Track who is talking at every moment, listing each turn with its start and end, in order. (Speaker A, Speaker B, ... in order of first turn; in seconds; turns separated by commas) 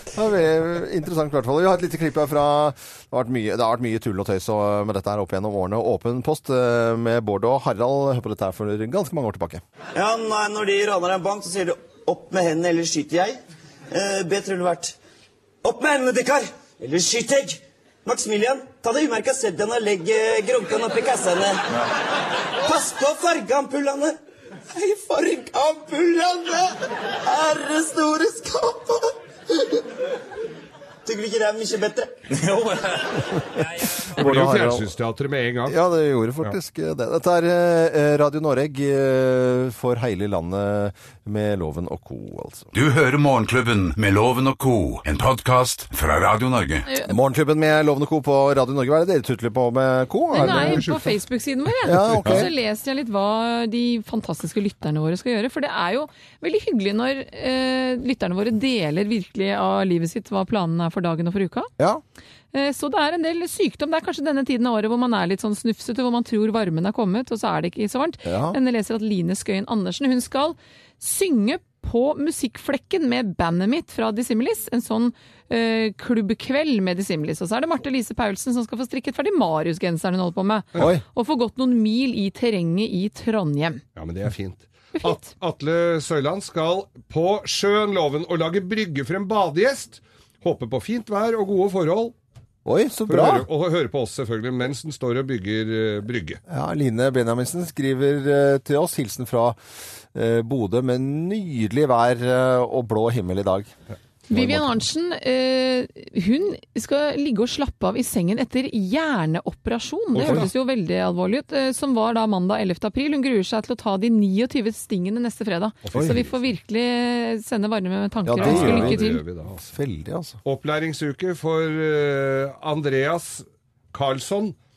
Speaker A: 0.1-9.6, Speaker B: 9.9-13.4, Speaker B: 13.9-15.0, Speaker B: 15.6-21.8, Speaker B: 22.6-24.2, Speaker B: 24.7-29.1, Speaker B: 31.1-32.1, Speaker A: 33.3-34.9, Speaker C: 34.2-35.8, Speaker A: 35.7-42.7, Speaker D: 42.7-46.9, Speaker A: 47.0-50.9, Speaker E: 50.3-61.7, Speaker C: 50.4-51.2, Speaker A: 51.8-52.5, Speaker C: 52.2-52.5, Speaker E: 62.5-83.8, Speaker A: 68.2-68.6, Speaker A: 80.8-81.0, Speaker C: 84.0-92.1, Speaker E: 85.0-85.3, Speaker A: 92.7-93.5, Speaker C: 93.1-96.4, Speaker A: 96.5-99.6, Speaker A: 100.1-103.7, Speaker E: 104.3-119.2, Speaker A: 104.3-104.8, Speaker C: 110.1-110.5, Speaker A: 110.2-110.5, Speaker C: 115.8-116.4, Speaker A: 118.2-119.1, Speaker C: 118.3-119.7, Speaker A: 119.6-120.4, Speaker C: 120.4-124.6